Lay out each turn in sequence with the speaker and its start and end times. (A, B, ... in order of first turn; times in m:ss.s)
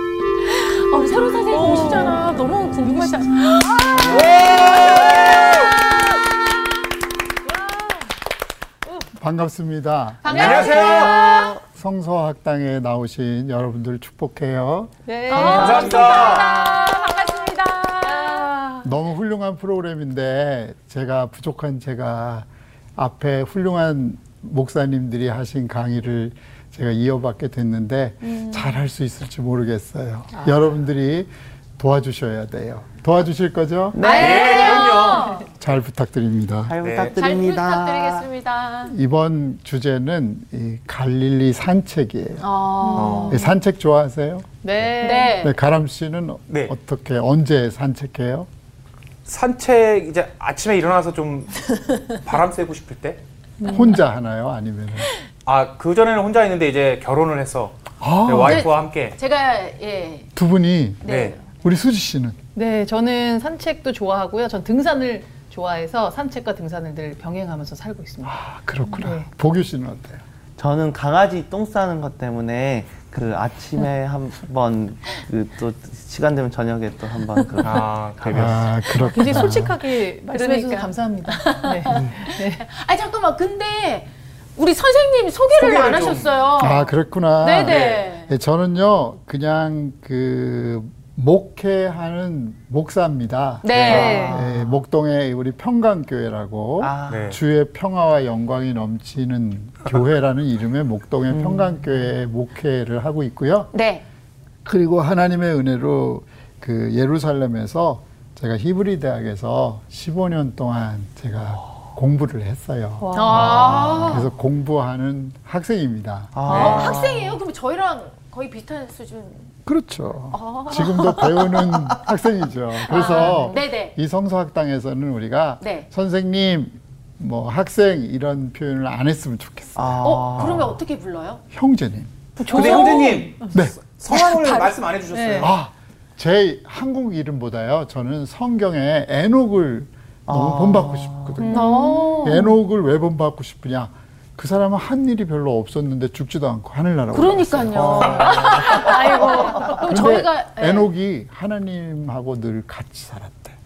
0:00.5-0:05.7 A
0:01.5-0:02.3 B
0:02.8-0:05.4 B
0:03.9-0:05.5 C
0:07.5-0:07.9 B
0:09.2-0:14.9 D
0:10.2-0:11.6 A
0:10.2-0:11.2 C
0:15.1-0:17.0 B
0:15.3-0:18.5 A
0:15.3-0:16.5 C
0:18.0-0:18.9 B
0:18.8-0:34.0 D
0:28.4-0:28.6 B
0:33.9-0:34.9 E
0:34.0-0:35.5 A
0:34.1-0:35.4 C
0:35.5-0:36.8 D
0:36.6-0:38.3 E
0:36.8-0:37.1 C
0:37.2-0:38.9 A
0:38.9-0:42.4 D
0:42.4-0:43.4 A
0:42.8-0:43.5 B
0:43.0-0:43.4 C
0:43.3-0:44.5 D
0:44.6-0:45.4 B
0:45.0-0:45.5 A
0:45.4-0:48.5 D
0:46.5-0:46.7 C
0:49.2-0:53.2 C
0:53.6-0:53.9 B
0:53.6-0:55.1 D
0:55.4-0:59.2 C
0:58.0-0:58.7 D
0:58.4-1:00.3 A
1:00.4-1:02.4 D
1:01.0-1:01.4 A
1:01.0-1:01.4 C
1:02.5-1:09.3 B
1:08.2-1:10.2 D
1:10.6-1:18.6 E
1:17.6-1:18.9 C
1:18.3-1:19.8 D
1:18.9-1:22.6 B
1:20.3-1:28.3 A
1:25.5-1:26.3 C
1:26.6-1:43.7 D
1:27.6-1:28.0 C
1:33.6-1:34.4 A
1:33.7-1:34.1 C
1:33.9-1:34.4 B
1:33.9-1:34.8 E
1:36.8-1:37.4 E
1:37.1-1:37.4 C
1:41.3-1:41.8 E
1:43.7-1:44.0 A
1:44.6-1:53.2 D
1:53.0-1:54.0 B
1:53.1-1:54.3 A
1:53.4-1:54.2 E
1:54.0-1:56.4 D
1:56.3-1:57.4 E
1:56.4-1:59.5 A
1:56.4-1:56.9 B
1:59.6-2:10.6 D
2:00.3-2:01.4 A
2:02.8-2:03.9 A
2:02.9-2:03.5 B
2:05.6-2:05.9 A
2:09.8-2:10.8 E
2:10.0-2:11.4 A
2:11.5-2:12.1 D
2:12.4-2:13.5 B
2:12.4-2:15.5 C
2:14.1-2:15.5 B
2:15.4-2:21.7 D
2:20.3-2:21.4 E
2:21.4-2:22.6 B
2:21.5-2:22.4 A
2:22.2-2:28.5 D
2:27.1-2:30.9 A
2:27.7-2:29.0 E
2:28.5-2:29.7 B
2:29.7-2:33.6 D